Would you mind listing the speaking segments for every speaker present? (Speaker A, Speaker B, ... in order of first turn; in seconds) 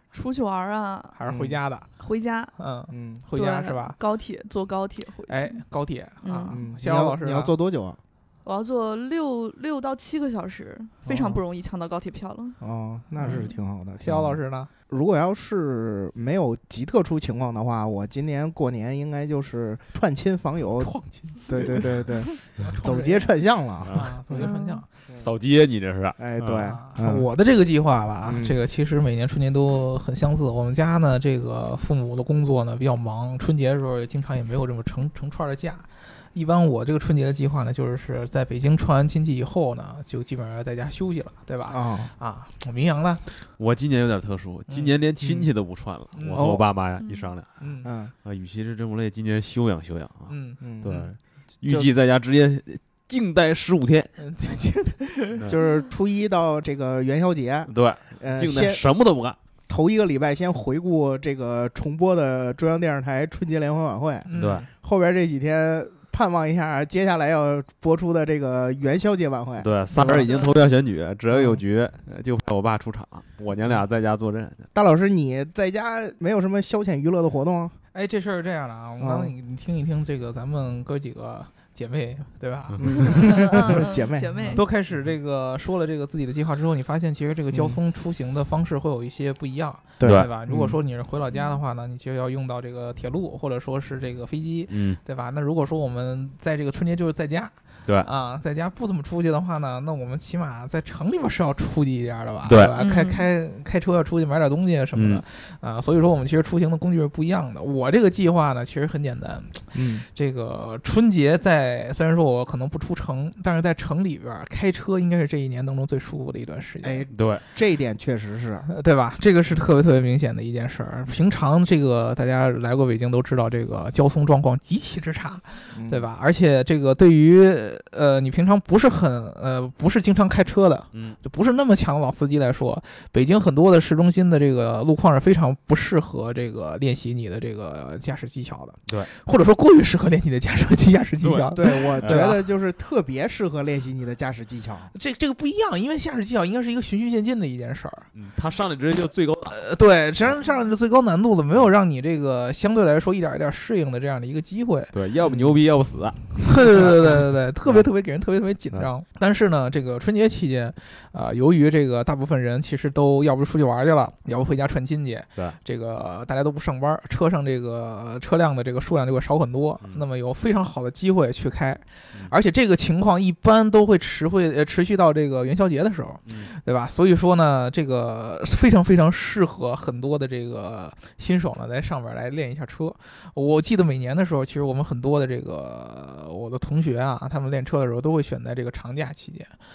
Speaker A: 0.1-1.2, 2.0-2.5, 3.3-5.6, 6.2-6.6, 8.4-12.6, 13.2-13.5, 24.3-24.8, 47.0-47.3, 70.2-70.6, 82.9-84.6, 91.3-91.6, 102.8-103.2
Speaker B: 1.1-1.9, 2.6-4.0, 5.3-7.5, 13.2-13.5, 14.0-14.7, 20.8-22.1, 22.6-23.3, 23.9-24.9, 26.6-43.2, 46.1-46.5, 47.6-47.9, 50.3-51.1, 54.2-55.4, 64.2-64.7, 77.9-83.8, 84.5-117.0, 118.7-142.4, 144.9-148.1, 149.5-154.9, 156.4-189.5
Speaker C: 1.3-1.6, 2.9-3.2, 6.5-8.0, 11.1-11.4, 12.6-24.5, 26.2-27.3, 28.2-28.6, 41.7-42.1, 45.2-45.5, 46.3-46.6, 47.8-48.1, 50.6-50.9, 55.4-58.8, 59.7-70.3, 71.3-71.6, 74.7-77.7, 79.0-79.3, 82.8-84.6, 87.5-87.8, 90.0-90.8, 109.7-110.0, 116.8-118.7, 125.7-126.1, 141.6-144.9, 155.2-155.6
Speaker D: 25.1-26.7, 43.6-47.5, 48.2-54.1, 57.7-59.4, 64.3-64.6, 69.6-74.6, 90.0-90.3, 94.7-95.0, 102.4-102.8, 105.0-105.2, 117.1-117.4, 130.9-131.2, 141.2-142.3, 148.1-149.6, 154.9-157.8